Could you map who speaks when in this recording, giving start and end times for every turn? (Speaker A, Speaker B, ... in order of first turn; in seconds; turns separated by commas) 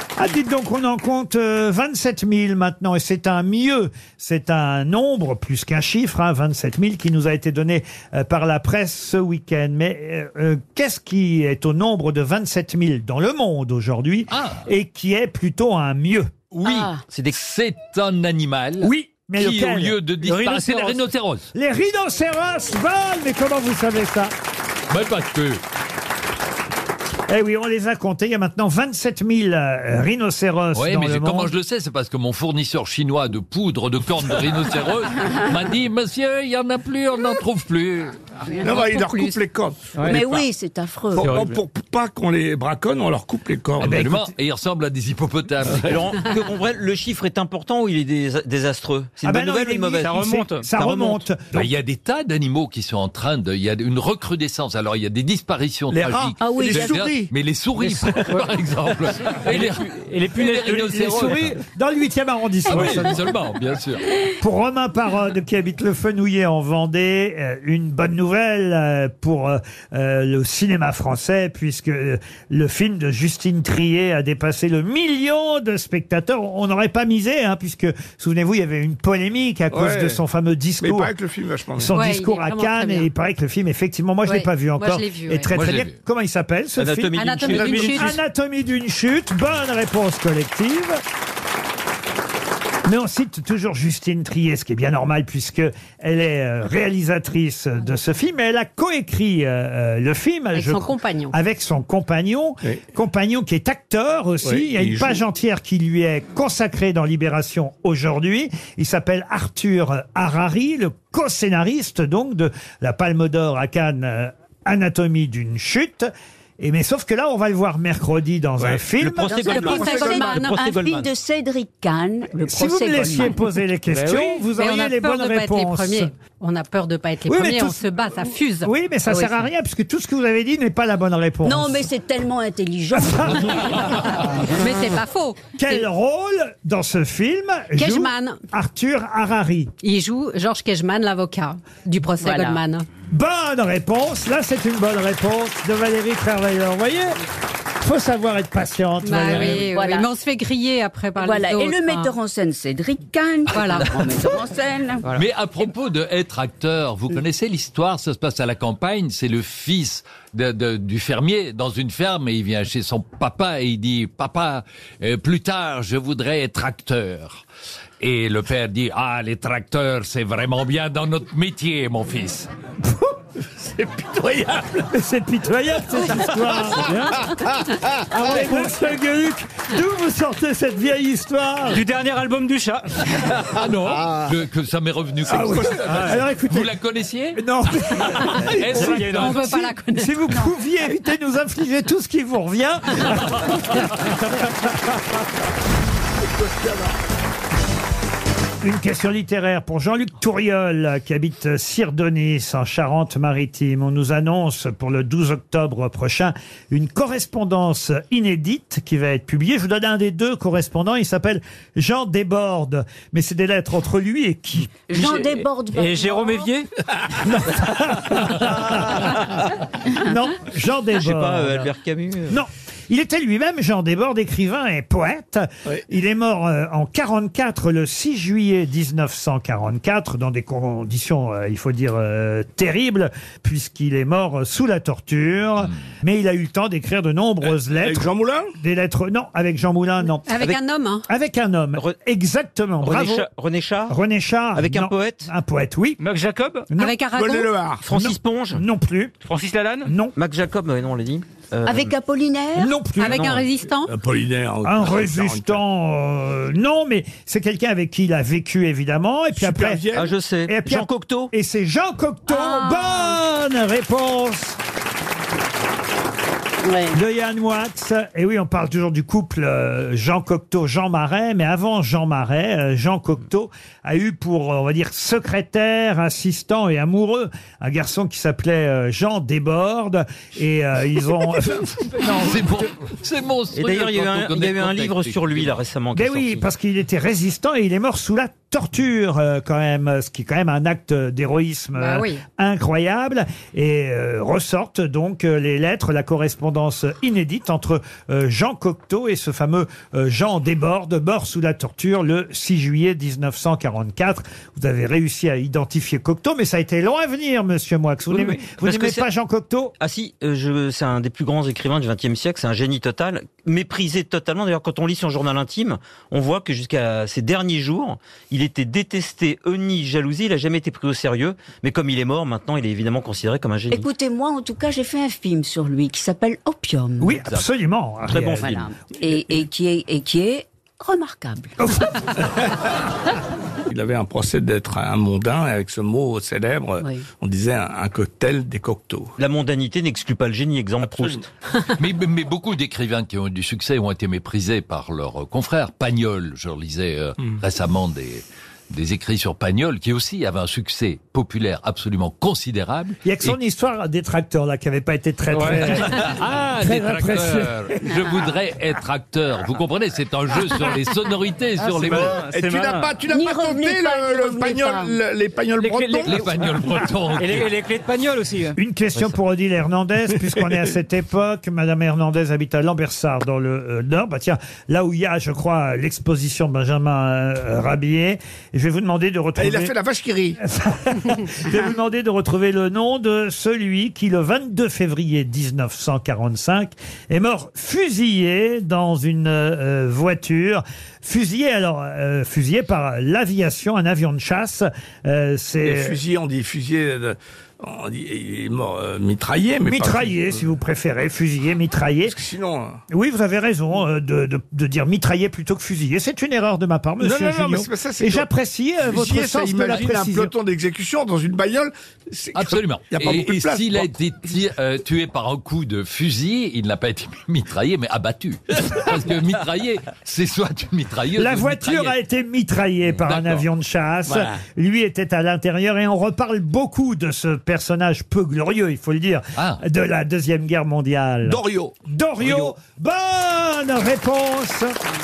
Speaker A: 0.2-16.3, Speaker B: 14.3-14.6, Speaker B: 16.5-21.5, Speaker C: 16.6-17.0, Speaker D: 17.1-17.4, Speaker A: 18.8-19.9, Speaker E: 20.2-21.1, Speaker A: 21.5-24.3, Speaker B: 24.9-25.6, Speaker A: 27.3-31.5, Speaker B: 30.7-38.1, Speaker F: 38.6-40.4, Speaker E: 39.9-40.2, Speaker C: 40.0-41.3, Speaker F: 41.1-44.1, Speaker E: 41.2-41.6, Speaker A: 43.8-44.3, Speaker B: 43.8-46.1, Speaker D: 45.8-50.2, Speaker A: 49.2-51.6, Speaker E: 49.9-51.2, Speaker B: 51.5-61.6, Speaker F: 55.9-57.2, Speaker C: 56.4-57.1, Speaker E: 57.9-58.5, Speaker E: 59.2-61.4, Speaker A: 60.6-63.3, Speaker B: 62.6-64.0, Speaker A: 64.4-81.1, Speaker F: 79.7-80.2, Speaker F: 80.8-81.9, Speaker A: 81.8-91.0, Speaker G: 81.9-83.1, Speaker G: 84.2-85.5, Speaker B: 85.5-86.0, Speaker D: 86.8-87.9, Speaker G: 87.1-88.1, Speaker F: 87.5-88.1, Speaker A: 92.8-119.4, Speaker G: 100.5-101.3, Speaker F: 104.4-105.2, Speaker D: 119.0-121.1, Speaker C: 119.3-123.3, Speaker G: 119.4-120.6, Speaker F: 119.7-120.3, Speaker A: 122.4-126.1, Speaker E: 123.9-124.4, Speaker G: 124.5-128.7, Speaker A: 127.3-128.0, Speaker A: 128.6-131.8, Speaker C: 131.4-133.6, Speaker A: 132.9-133.6, Speaker G: 134.6-135.8, Speaker A: 135.6-139.7, Speaker G: 137.8-138.4, Speaker G: 139.8-142.8, Speaker C: 142.2-142.6, Speaker A: 143.1-147.2, Speaker A: 147.8-149.6, Speaker G: 149.0-152.1, Speaker C: 149.4-150.1, Speaker C: 151.2-155.0, Speaker G: 153.5-153.9, Speaker B: 155.1-167.4, Speaker B: 168.0-172.5, Speaker A: 172.8-173.1, Speaker F: 173.6-174.9, Speaker A: 174.9-177.1, Speaker E: 176.9-177.2, Speaker A: 178.1-181.8, Speaker E: 181.7-182.9, Speaker B: 183.4-187.4, Speaker A: 185.3-186.7, Speaker F: 185.3-185.9, Speaker A: 187.3-193.9, Speaker B: 188.2-189.4, Speaker E: 188.7-189.4, Speaker G: 189.1-190.4, Speaker F: 196.2-196.9, Speaker A: 198.6-214.7, Speaker C: 214.9-216.5, Speaker E: 214.9-216.7, Speaker A: 217.2-221.7, Speaker D: 221.0-222.4, Speaker A: 222.3-240.6, Speaker F: 237.5-238.5, Speaker G: 240.2-241.1, Speaker A: 241.1-243.3, Speaker D: 242.8-243.9, Speaker A: 243.9-246.0, Speaker D: 244.5-245.3, Speaker E: 246.0-246.7, Speaker A: 246.7-246.9, Speaker G: 246.7-247.5, Speaker F: 247.1-247.8, Speaker D: 247.8-248.6, Speaker A: 247.8-249.1, Speaker E: 249.2-249.9, Speaker A: 249.8-250.1, Speaker D: 250.1-251.9, Speaker C: 251.6-252.7, Speaker A: 252.6-253.4, Speaker G: 253.0-253.9, Speaker F: 253.8-255.6, Speaker A: 254.6-259.8, Speaker F: 259.4-260.1, Speaker D: 259.9-261.3, Speaker A: 260.4-264.6, Speaker C: 262.3-262.8, Speaker C: 266.6-267.0, Speaker A: 266.9-282.6, Speaker B: 282.1-285.6, Speaker D: 283.5-286.4, Speaker A: 285.9-309.7, Speaker G: 291.8-292.2, Speaker D: 308.6-309.1, Speaker D: 309.8-323.9, Speaker C: 323.7-327.2, Speaker A: 327.0-328.6, Speaker D: 328.0-328.7, Speaker C: 328.4-331.5, Speaker A: 331.6-332.2, Speaker F: 333.7-339.1, Speaker D: 339.2-341.3, Speaker F: 340.8-341.2, Speaker B: 341.8-353.3, Speaker A: 353.0-358.0, Speaker E: 355.3-355.7, Speaker B: 355.5-362.2, Speaker E: 361.6-362.9, Speaker F: 361.9-366.2, Speaker C: 363.1-365.0, Speaker E: 365.6-368.6, Speaker B: 366.1-367.5, Speaker A: 368.6-379.7, Speaker F: 379.4-380.4, Speaker A: 380.4-396.0, Speaker F: 395.6-400.4, Speaker A: 399.6-402.1, Speaker F: 402.1-402.8, Speaker A: 402.9-410.3, Speaker F: 407.0-408.2, Speaker F: 408.8-413.9, Speaker B: 412.3-421.9, Speaker A: 421.1-434.8, Speaker B: 423.0-423.4, Speaker B: 429.4-429.6, Speaker F: 431.2-432.5